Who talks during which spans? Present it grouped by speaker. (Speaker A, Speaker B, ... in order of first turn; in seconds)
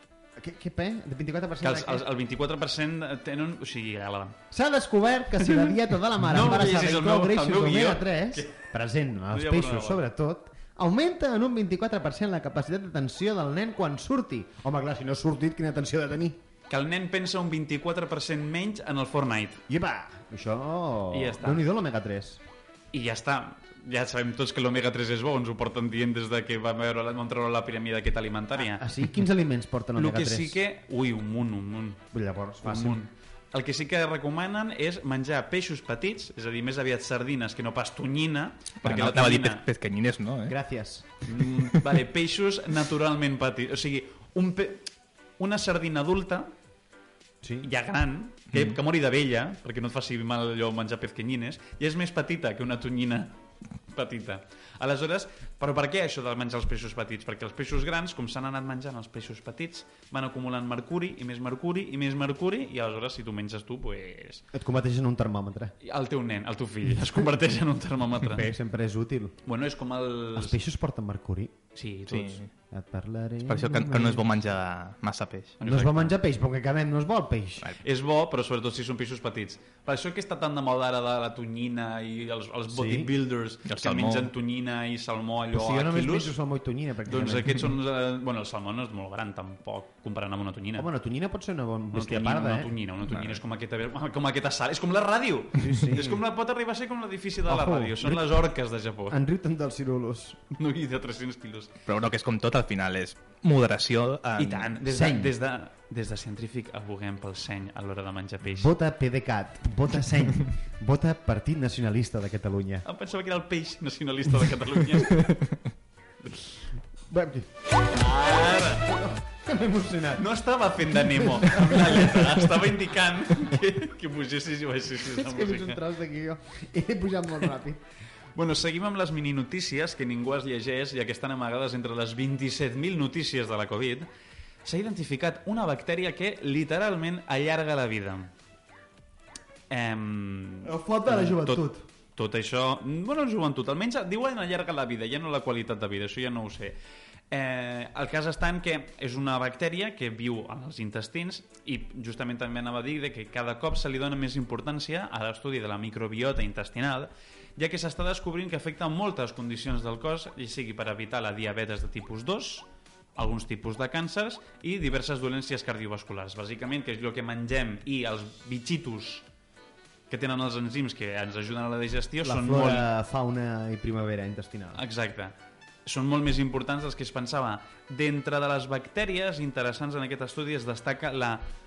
Speaker A: 0.4-2.1, 4.5-16.4, 19.7-22.4, 28.6-30.6, 32.1-33.0, 40.5-41.1, 47.4-47.7, 64.5-65.8, 68.2-69.3, 70.3-71.5, 72.7-74.2, 75.6-77.7, 82.7-83.1, 85.5-87.7, 90.8-92.7, 95.6-96.2, 97.5-98.4, 99.1-100.4, 104.8-105.3, 108.5-112.8, 117.1-117.5, 118.6-120.3, 121.1-122.3, 125.1-127.8, 140.6-141.8, 172.2-174.8
Speaker B: 1.6-4.4, 5.4-8.6, 9.3-10.0, 16.7-19.6, 21.1-21.6, 22.9-28.8, 29.9-32.0, 32.6-39.6, 41.2-44.9, 45.4-46.5, 47.6-53.4, 53.9-64.4, 65.8-68.5, 69.5-70.6, 71.7-72.4, 75.6-76.1, 77.8-86.3, 87.0-90.9, 91.9-99.2, 100.5-101.7, 104.4-108.7, 112.8-115.3, 117.9-118.9, 120.1-125.8, 128.3-134.1, 134.6-138.3, 139.7-146.8, 147.3-169.2, 170.1-172.9, 174.7-175.3, 175.8-181.4
Speaker C: 38.8-40.5, 72.1-72.5, 73.5-75.6, 83.6-84.3, 93.1-93.4, 101.9-104.7